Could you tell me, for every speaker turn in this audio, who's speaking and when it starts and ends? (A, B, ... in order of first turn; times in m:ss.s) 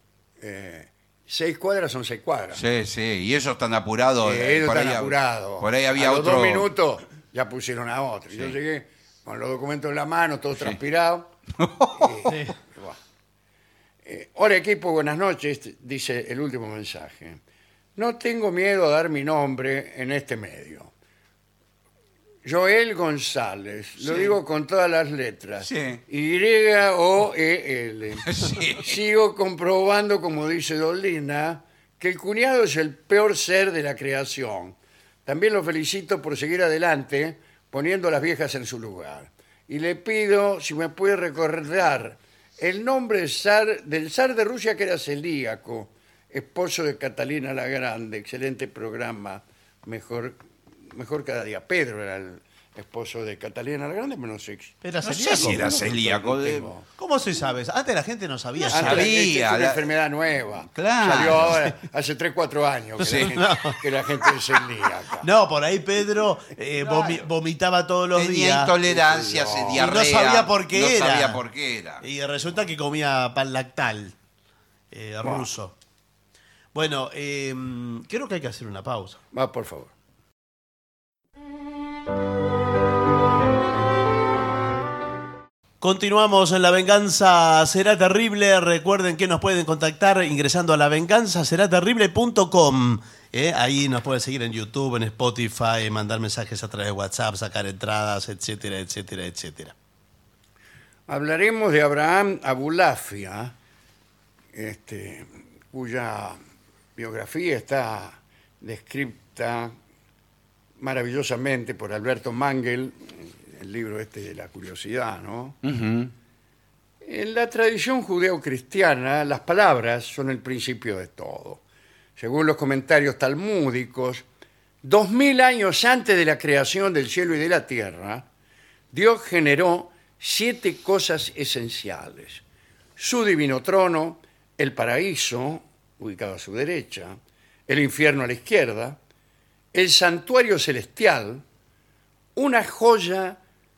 0:00.4-0:02.6 A
0:02.5-0:06.7 B
0:04.2-0:11.3 A
0:11.6-0:12.3 B
0:11.9-0:13.0 A
0:12.3-0:12.5 C
0:14.0-0:17.4 A
0:18.0-0:20.9 A
0:22.4-0:50.4 A
0:24.0-0:24.4 B
0:25.6-0:26.0 B
0:28.2-0:29.0 B
0:50.9-0:56.9 A
0:54.8-0:55.7 C
0:55.0-0:56.7 B
0:57.0-0:59.1 C
0:58.7-0:59.8 B
0:58.7-1:05.3 A
1:00.7-1:01.6 B
1:01.1-1:01.8 C
1:03.0-1:03.3 B
1:03.1-1:03.8 C
1:05.2-1:08.7 C
1:06.8-1:07.2 B
1:08.2-1:12.0 B
1:08.8-1:10.0 A
1:09.8-1:11.4 C
1:12.0-1:14.2 C
1:14.9-1:15.7 C
1:16.7-1:19.2 C
1:19.3-1:19.9 A
1:25.8-1:39.7 C
1:41.1-1:43.5 A
1:44.5-1:46.4 A
1:47.0-1:49.7 A
1:50.8-1:55.6 A
1:55.6-1:56.1 B
1:57.0-2:01.6 A
2:02.2-2:04.2 A
2:04.8-2:08.2 A
2:08.9-2:12.4 A
2:13.0-2:19.0 A
2:19.7-2:21.4 A
2:22.4-2:23.4 A